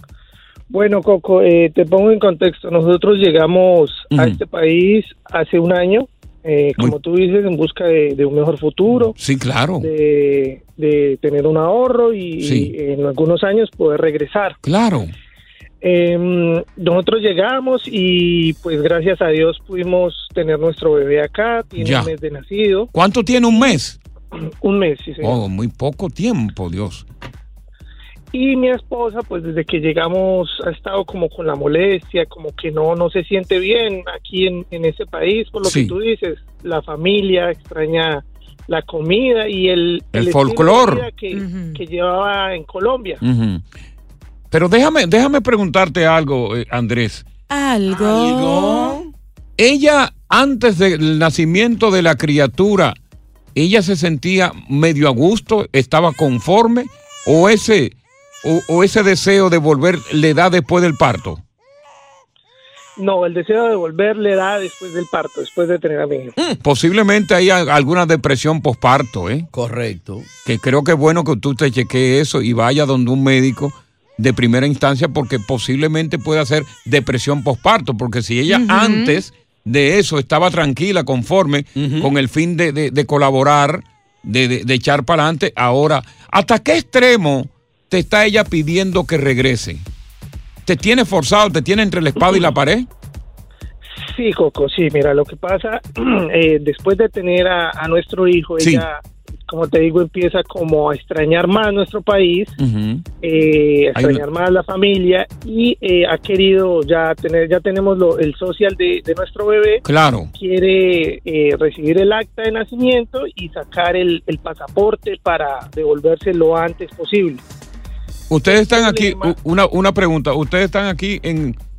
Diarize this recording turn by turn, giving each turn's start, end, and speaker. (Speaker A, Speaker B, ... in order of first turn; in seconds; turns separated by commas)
Speaker A: 0.7-9.2, Speaker B: 4.1-4.4, Speaker B: 9.2-9.9, Speaker A: 9.8-14.6, Speaker B: 12.4-12.7, Speaker B: 14.6-15.1, Speaker A: 15.8-22.9, Speaker B: 21.8-22.1, Speaker B: 22.9-24.0, Speaker A: 24.6-25.4, Speaker B: 25.2-27.1, Speaker A: 28.3-43.2, Speaker B: 35.6-36.0, Speaker B: 40.1-41.1, Speaker C: 41.3-41.8, Speaker B: 43.2-43.7, Speaker B: 44.5-47.3, Speaker C: 47.5-49.0, Speaker D: 47.9-49.1, Speaker B: 49.6-53.0, Speaker B: 53.5-61.4, Speaker A: 63.0-66.3, Speaker B: 66.6-69.5, Speaker D: 69.5-70.3, Speaker B: 70.5-89.9, Speaker C: 78.5-79.2, Speaker D: 81.8-82.1, Speaker B: 90.7-92.9, Speaker A: 94.1-102.6, Speaker B: 98.6-98.9, Speaker B: 102.6-103.0, Speaker A: 103.2-109.8, Speaker B: 103.9-104.2, Speaker B: 109.8-110.3, Speaker A: 110.3-117.4, Speaker B: 118.3-121.6, Speaker A: 118.5-119.4